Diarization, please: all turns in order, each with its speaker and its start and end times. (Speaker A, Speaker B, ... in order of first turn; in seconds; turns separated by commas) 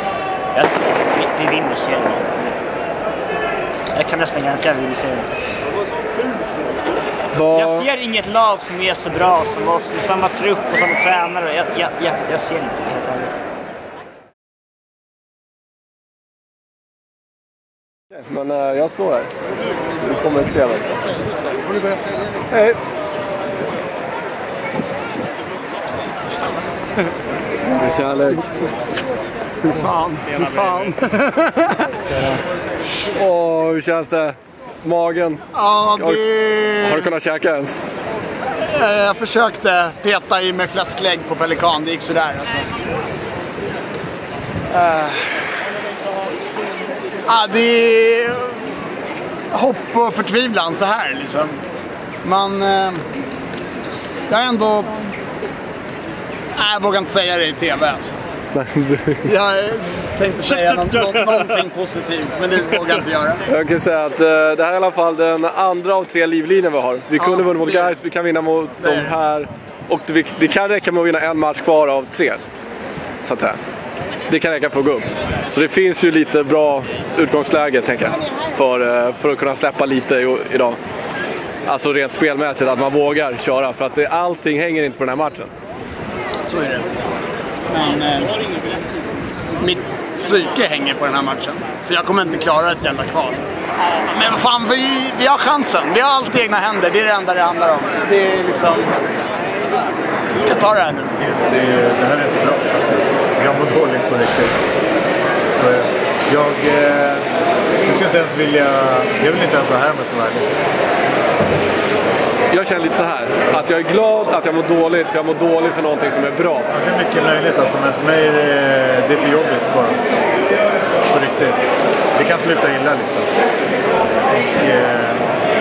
Speaker A: 0.5-2.3, Speaker A: 3.9-5.3, Speaker B: 7.3-7.9, Speaker A: 7.5-13.4, Speaker B: 18.1-19.3, Speaker B: 20.0-21.0, Speaker B: 22.5-22.8, Speaker B: 27.7-28.5, Speaker C: 29.7-31.9, Speaker B: 33.1-35.4, Speaker C: 35.5-37.1, Speaker B: 36.0-36.2, Speaker B: 36.8-37.8, Speaker C: 38.5-42.7, Speaker C: 44.7-45.2, Speaker C: 47.3-48.6, Speaker C: 49.5-51.6, Speaker C: 52.2-53.0, Speaker C: 54.3-55.1, Speaker C: 56.5-58.1, Speaker B: 58.5-59.3, Speaker C: 59.2-63.4, Speaker B: 63.5-72.4, Speaker C: 67.2-68.0, Speaker C: 68.8-69.1, Speaker B: 73.2-73.6, Speaker B: 74.3-80.8, Speaker B: 81.7-85.5, Speaker C: 86.4-86.8, Speaker C: 87.7-88.3, Speaker C: 89.6-98.9, Speaker C: 100.3-101.4, Speaker D: 101.3-104.5, Speaker D: 105.5-107.2, Speaker D: 107.8-110.5, Speaker B: 112.5-116.7, Speaker D: 116.7-120.0, Speaker D: 121.1-121.6, Speaker D: 122.1-123.3, Speaker D: 124.3-125.2